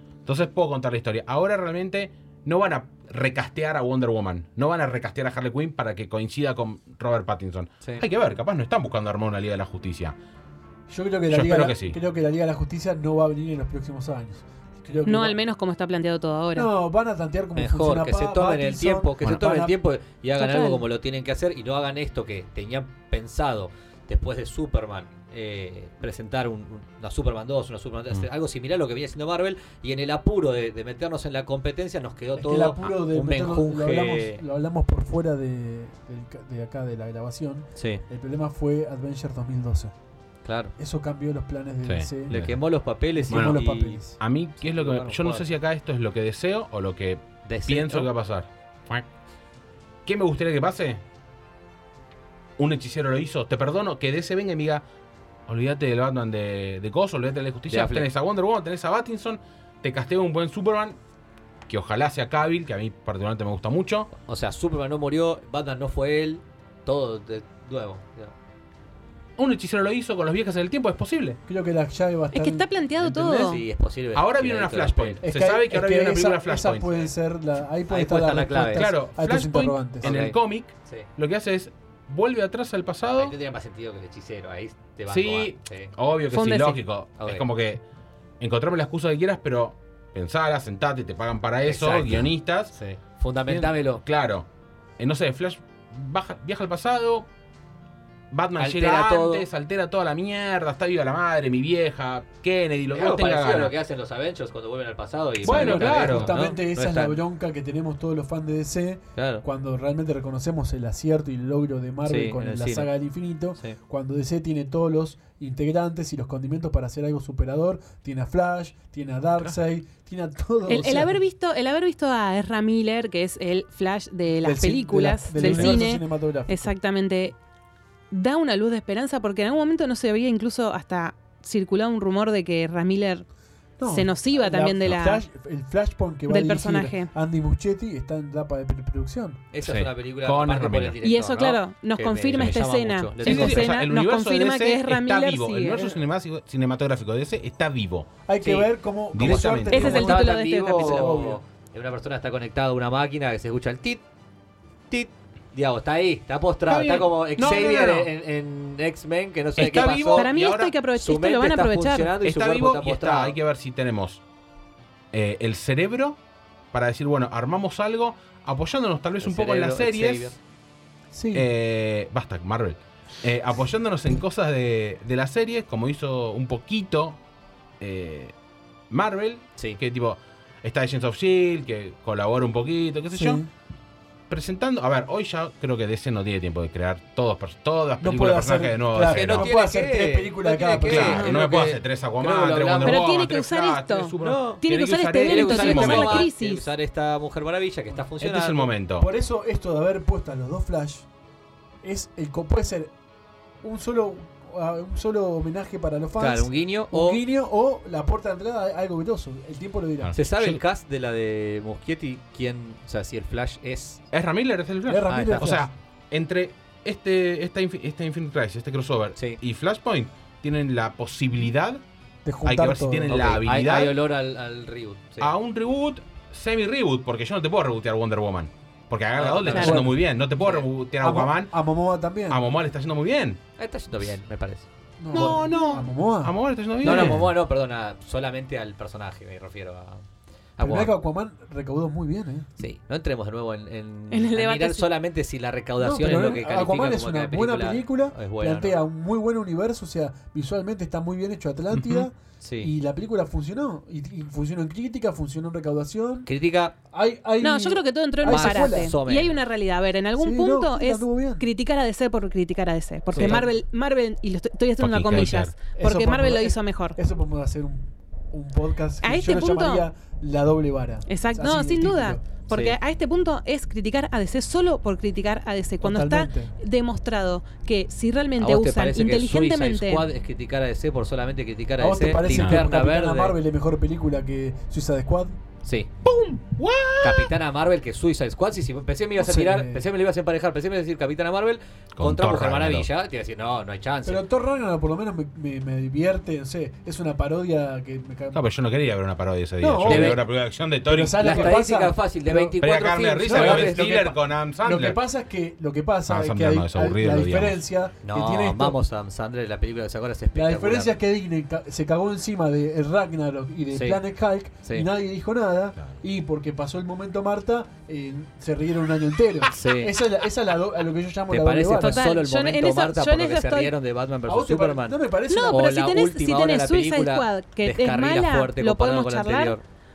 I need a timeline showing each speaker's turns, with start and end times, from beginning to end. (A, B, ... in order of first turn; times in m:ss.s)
0:00.2-0:10.2 A
0:10.9-0:15.4 B
0:11.3-0:12.0 A
0:15.0-0:16.7 C
0:16.5-0:19.8 B
0:17.6-0:34.4 D
0:20.4-0:20.8 C
0:32.4-0:39.9 B
0:37.8-0:38.0 D
0:40.4-0:40.7 D
0:40.8-0:42.4 B
0:41.8-0:42.6 A
0:42.3-0:44.0 D
0:43.1-0:44.2 B
0:43.3-0:43.6 A
0:44.2-0:49.0 A
0:44.6-0:45.5 D
0:47.4-0:48.1 D
0:50.0-0:51.0 A
0:52.6-0:54.8 A
0:55.5-1:01.0 A
0:57.7-0:58.1 D
1:01.7-1:04.1 A
1:04.2-1:08.3 D
1:09.4-1:11.4 A
1:11.5-1:12.7 B
1:12.3-1:13.6 C
1:13.0-1:13.6 A
1:13.3-1:15.2 D
1:14.1-1:17.1 A
1:15.2-1:20.1 B
1:17.9-1:18.9 D
1:18.7-1:23.3 A
1:20.0-1:21.1 D
1:23.1-1:25.9 D
1:25.1-1:27.8 A
1:26.3-1:26.8 C
1:27.2-1:27.4 D
1:28.4-1:32.7 A
1:31.6-1:34.0 D
1:33.5-1:37.3 A
1:38.3-1:43.7 A
1:38.6-1:39.5 D
1:42.9-1:47.2 D
1:45.4-1:46.3 A
1:45.4-2:01.2 B
1:49.2-1:49.4 D
1:52.0-1:52.9 D
2:00.6-2:07.3 C
2:04.4-2:06.7 B
2:05.4-2:05.8 A
2:08.1-2:13.2 C
2:13.8-2:19.4 B
2:13.8-2:15.2 C
2:16.3-2:17.1 C
2:19.5-2:23.8 D
2:19.6-2:21.0 A
2:21.0-2:25.9 C
2:23.2-2:28.1 A
2:28.2-2:31.4 B
2:28.4-2:34.0 D
2:29.1-2:30.0 A
2:29.7-2:31.1 C
2:34.9-2:40.3 D
2:36.7-2:38.1 A
2:39.6-2:40.7 A
2:39.6-2:42.1 C
2:41.0-2:43.4 D
2:42.2-2:44.2 A
2:45.1-2:46.2 A
2:46.7-2:50.4 A
2:49.2-2:50.4 D
2:51.1-2:51.5 B
2:51.3-2:57.2 A
2:57.8-2:58.3 A
2:58.9-3:03.4 A
3:03.1-3:03.5 B
3:04.3-3:09.5 A
3:08.0-3:11.3 B
3:09.0-3:13.0 D
3:10.9-3:16.3 A
3:12.8-3:16.6 C
3:14.2-3:14.6 D
3:15.2-3:18.7 D
3:18.2-3:19.1 A
3:19.0-3:21.1 B
3:21.8-3:22.9 B
3:23.6-3:30.2 B
3:26.2-3:27.2 D
3:30.0-3:30.6 A
3:30.1-3:34.0 D
3:34.1-3:41.8 A
3:34.8-3:35.7 B
3:35.1-3:35.5 D
3:42.2-3:43.4 B
3:42.4-3:44.0 A
3:43.1-3:45.3 D
3:45.2-3:51.5 A
3:49.1-3:50.7 D
3:49.5-3:50.0 B
3:51.0-3:52.4 B
3:52.3-3:53.4 A
3:53.6-3:55.3 D
3:55.0-3:57.2 B
3:55.1-3:57.3 A
3:55.2-3:55.8 C
3:56.8-4:00.0 D
4:00.6-4:00.9 D
4:00.6-4:02.5 B
4:02.6-4:08.8 D
4:04.1-4:04.9 C
4:05.8-4:16.3 B
4:11.7-4:12.0 A
4:12.4-4:12.7 D
4:16.2-4:16.8 D
4:16.9-4:19.0 B
4:17.4-4:27.0 C
4:18.2-4:19.4 D
4:20.2-4:21.5 B
4:23.1-4:23.4 D
4:23.1-4:23.5 B
4:24.8-4:25.5 A
4:25.7-4:32.2 B
4:29.0-4:29.9 C
4:31.1-4:40.0 C
4:32.5-4:32.8 D
4:35.8-4:36.5 B
4:38.4-4:43.4 D
4:41.8-4:45.4 B
4:42.2-4:42.6 A
4:45.6-4:45.9 D
4:46.0-4:47.3 A
4:47.0-4:54.2 D
4:49.2-4:49.8 B
4:52.0-4:52.9 A
4:54.0-4:58.4 B
4:58.3-5:01.6 A
4:59.6-5:00.2 B
4:59.8-5:00.2 D
5:00.9-5:02.6 B
5:01.2-5:04.0 D
5:02.6-5:05.0 A
5:03.2-5:08.8 B
5:06.1-5:07.6 A
5:08.0-5:11.0 D
5:10.3-5:22.0 B
5:13.7-5:14.0 D
5:14.6-5:14.9 D
5:19.5-5:19.9 D
5:21.3-5:29.6 D
5:21.8-5:23.7 C
5:24.2-5:25.7 B
5:25.3-5:29.6 C